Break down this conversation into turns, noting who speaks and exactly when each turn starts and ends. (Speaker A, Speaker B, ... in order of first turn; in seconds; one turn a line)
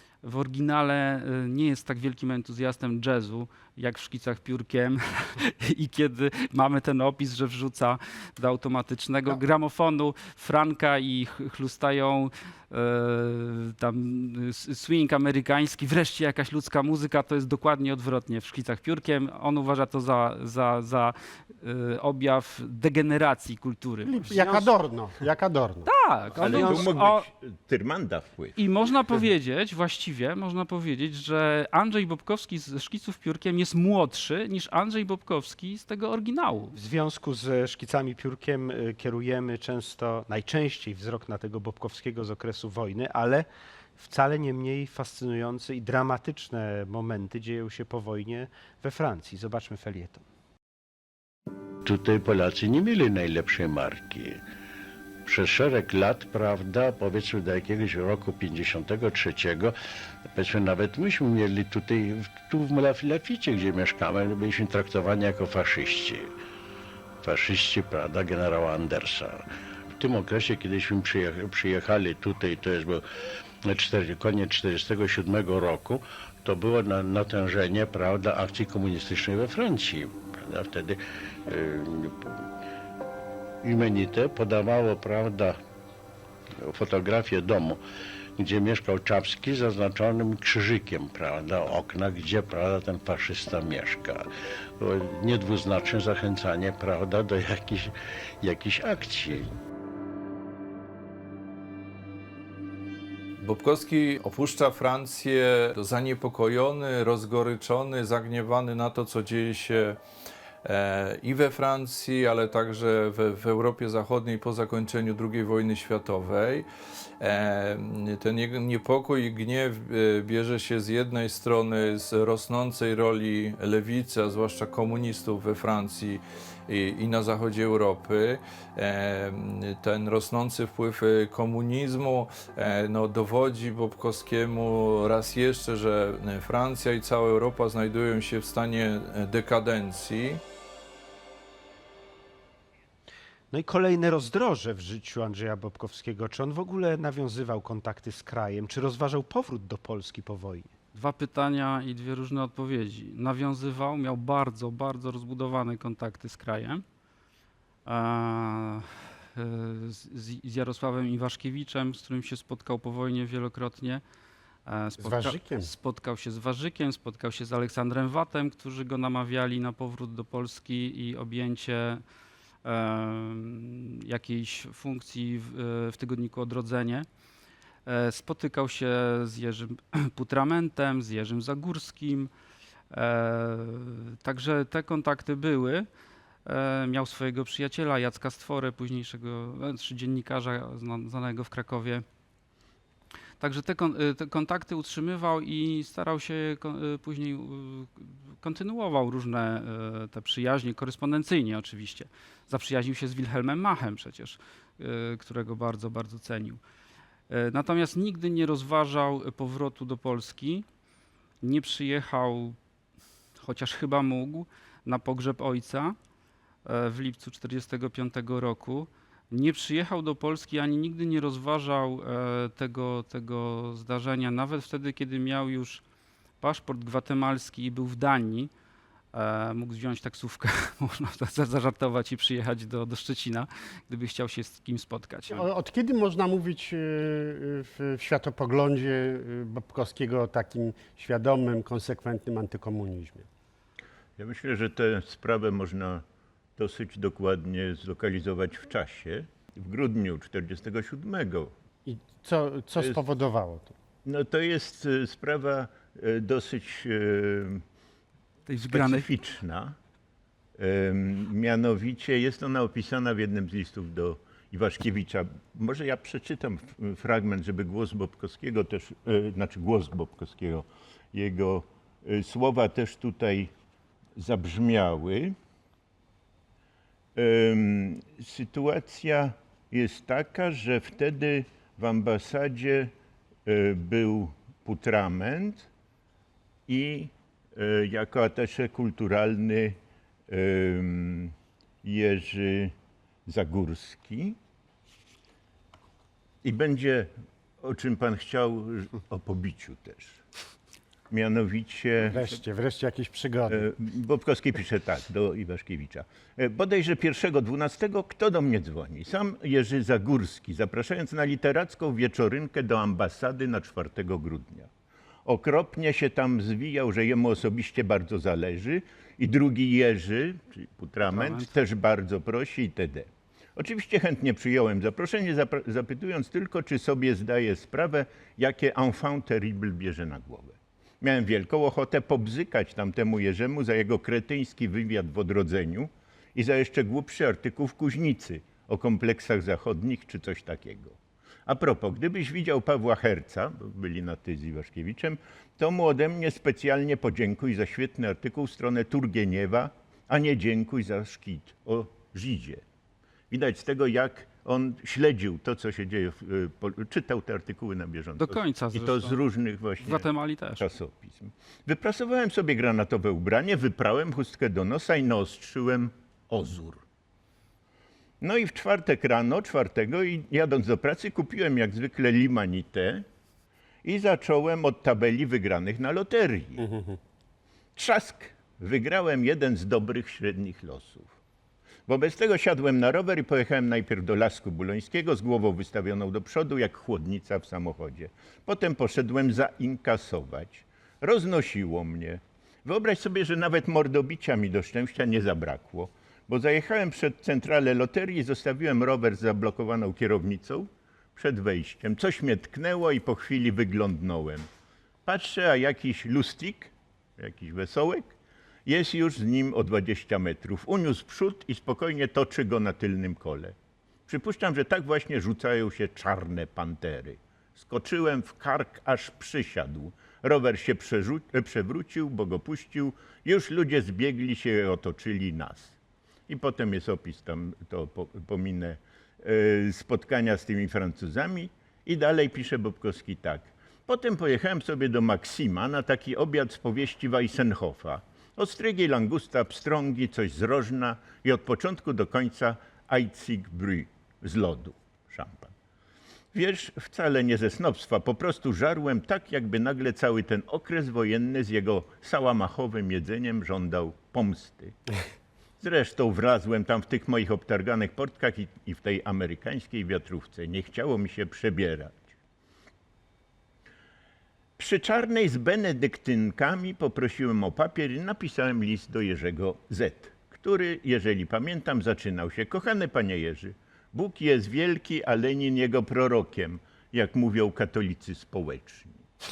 Speaker A: 0.2-24.7
Speaker B: 24.0-25.9
Speaker A: 25.8-27.2
Speaker C: 26.4-28.6
Speaker B: 26.4-26.9
Speaker A: 28.6-36.8
Speaker D: 36.8-43.5
Speaker D: 44.0-50.2
Speaker E: 51.8-54.4
Speaker E: 55.2-59.7
Speaker E: 60.3-66.3
Speaker E: 67.2-73.0
Speaker E: 73.7-82.4
Speaker E: 83.6-85.6
Speaker E: 86.6-87.8
Speaker E: 88.4-94.3
Speaker E: 94.8-99.5
Speaker F: 103.4-110.0
Speaker F: 110.6-116.7
Speaker F: 117.2-140.4
Speaker D: 143.5-150.7
Speaker A: 150.9-156.8
Speaker A: 157.8-164.0
Speaker A: 164.7-172.0
Speaker B: 165.0-165.7
Speaker A: 172.6-177.1
Speaker A: 177.9-182.3
Speaker A: 182.9-185.9
Speaker A: 186.4-192.0
Speaker A: 193.4-206.6
Speaker A: 207.3-210.6
Speaker A: 211.4-212.6
Speaker A: 213.4-215.9
Speaker A: 216.7-225.8
Speaker A: 226.4-228.5
Speaker A: 229.1-235.5
Speaker B: 235.3-243.3
Speaker C: 244.2-246.0
Speaker C: 246.6-251.5
Speaker B: 251.8-253.7
Speaker C: 252.8-253.0
Speaker C: 254.0-257.6
Speaker A: 258.5-259.1
Speaker C: 258.7-259.8
Speaker C: 260.6-273.5
Speaker C: 274.2-275.3
Speaker C: 277.1-282.9
Speaker C: 283.4-285.7
Speaker C: 286.7-292.7
Speaker C: 293.3-294.4
Speaker C: 296.4-300.2
Speaker C: 301.1-302.3
Speaker B: 302.0-303.7
Speaker C: 303.5-314.7
Speaker C: 315.2-352.6
Speaker A: 321.0-321.6
Speaker C: 353.3-366.8
Speaker A: 358.2-359.2
Speaker A: 359.8-360.7
Speaker C: 368.2-373.0
Speaker C: 373.8-376.7
Speaker B: 376.6-376.9
Speaker C: 377.8-381.1
Speaker C: 381.9-404.5
Speaker C: 405.1-408.1
Speaker C: 408.6-413.5
Speaker C: 414.1-425.8
Speaker C: 426.3-445.5
Speaker C: 446.3-454.8
Speaker C: 455.6-462.1
Speaker C: 464.6-479.0